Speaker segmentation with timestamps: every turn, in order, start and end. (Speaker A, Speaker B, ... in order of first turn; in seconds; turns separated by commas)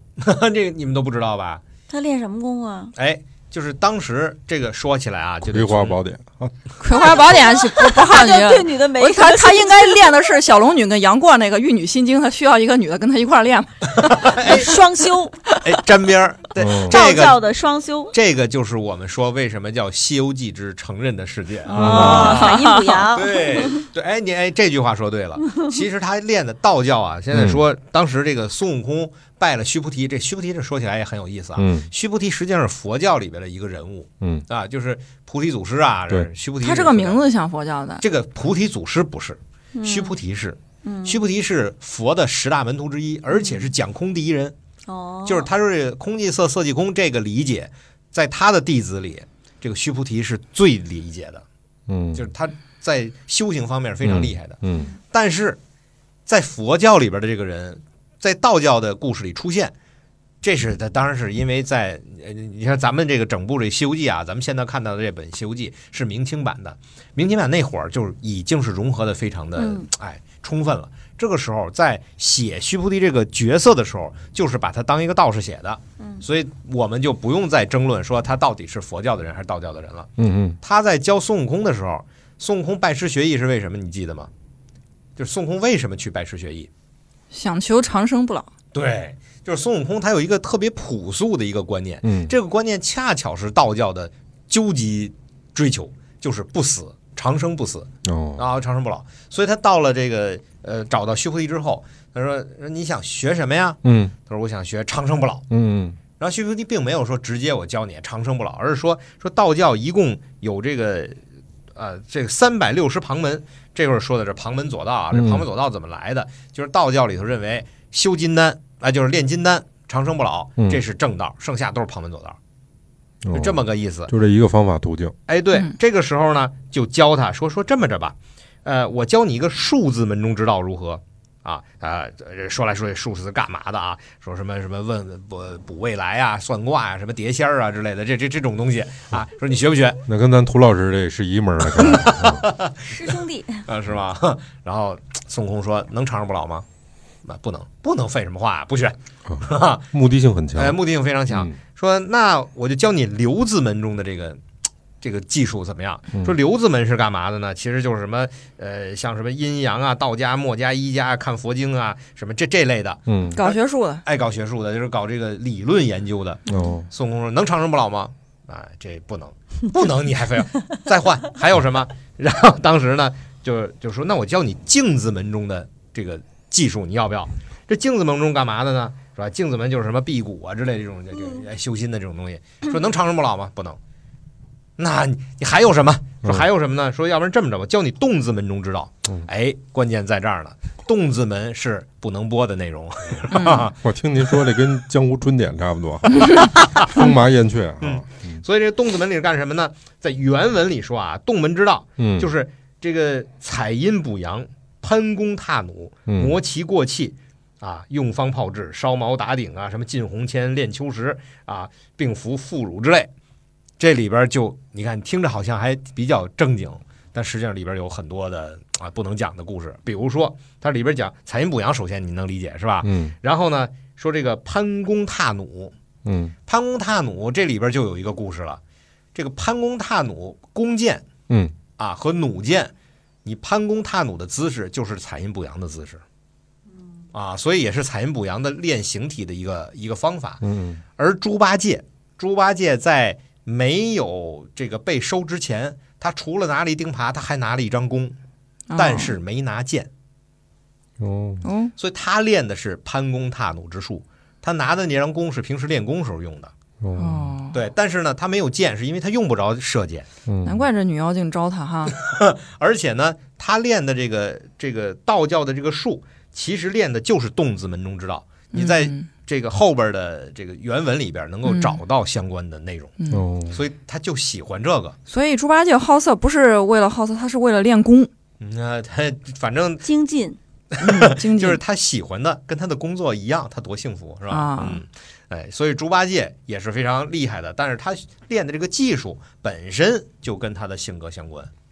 Speaker A: 0.2-1.6, Speaker B: 1.9-2.9, Speaker A: 3.0-6.0, Speaker C: 5.4-6.5, Speaker D: 6.8-14.8, Speaker B: 7.0-10.0, Speaker A: 13.9-14.7, Speaker B: 14.3-15.4, Speaker A: 15.6-17.4, Speaker C: 16.6-17.0, Speaker B: 16.9-18.1, Speaker A: 18.1-37.2, Speaker B: 21.7-23.8, Speaker D: 21.7-23.1, Speaker C: 21.8-22.3, Speaker C: 27.3-27.6, Speaker C: 31.6-31.9, Speaker C: 34.2-34.5, Speaker D: 36.6-38.0, Speaker A: 38.0-44.5, Speaker B: 39.7-40.1, Speaker B: 40.8-41.2, Speaker B: 43.3-43.7, Speaker B: 44.9-45.5, Speaker A: 45.2-51.4, Speaker C: 51.9-52.2, Speaker A: 52.1-54.6, Speaker C: 54.0-54.9, Speaker A: 55.1-55.6, Speaker A: 56.2-59.7, Speaker A: 60.4-80.1, Speaker B: 69.6-69.9, Speaker B: 76.0-76.2, Speaker C: 80.2-80.6, Speaker A: 80.6-84.3, Speaker A: 85.2-86.7, Speaker D: 87.3-88.5, Speaker A: 88.7-105.4, Speaker C: 92.0-92.3, Speaker C: 98.0-98.4, Speaker C: 103.8-104.1, Speaker C: 105.5-106.0, Speaker A: 106.2-111.2, Speaker A: 111.7-122.4, Speaker C: 115.1-115.4, Speaker C: 123.2-125.1, Speaker A: 123.3-124.1, Speaker A: 125.3-140.0, Speaker C: 140.1-142.4, Speaker A: 141.8-143.1, Speaker B: 142.9-143.7, Speaker A: 143.7-146.6, Speaker A: 147.2-149.9, Speaker C: 149.3-150.8, Speaker A: 150.5-154.4, Speaker C: 151.3-151.6, Speaker A: 155.0-183.8, Speaker C: 163.1-163.4, Speaker D: 163.3-164.0, Speaker C: 166.5-166.9, Speaker D: 166.5-166.8, Speaker A: 184.8-193.7, Speaker D: 193.3-193.7, Speaker C: 193.8-198.4, Speaker A: 197.8-213.1, Speaker C: 202.0-202.3, Speaker C: 206.1-206.3, Speaker A: 213.8-225.7, Speaker C: 222.8-223.1, Speaker C: 226.0-226.3, Speaker A: 226.5-228.6, Speaker A: 229.1-231.1, Speaker C: 231.3-231.5, Speaker A: 231.8-232.7, Speaker A: 233.2-236.0, Speaker A: 237.1-240.4, Speaker C: 240.4-240.8, Speaker A: 241.0-248.1, Speaker D: 248.7-249.1, Speaker A: 248.8-249.9, Speaker C: 251.0-251.4, Speaker D: 251.4-251.7, Speaker A: 251.8-256.5, Speaker C: 256.8-257.4, Speaker D: 256.9-257.5, Speaker A: 257.5-260.1, Speaker C: 260.3-260.6, Speaker D: 260.4-261.9, Speaker A: 262.0-272.9, Speaker D: 268.5-269.1, Speaker D: 271.4-271.8, Speaker D: 273.0-273.2, Speaker C: 273.1-273.6, Speaker A: 273.5-275.0, Speaker D: 275.1-278.1, Speaker A: 278.4-279.8, Speaker B: 279.8-280.4, Speaker A: 280.7-291.5, Speaker D: 280.8-281.6, Speaker D: 284.3-284.8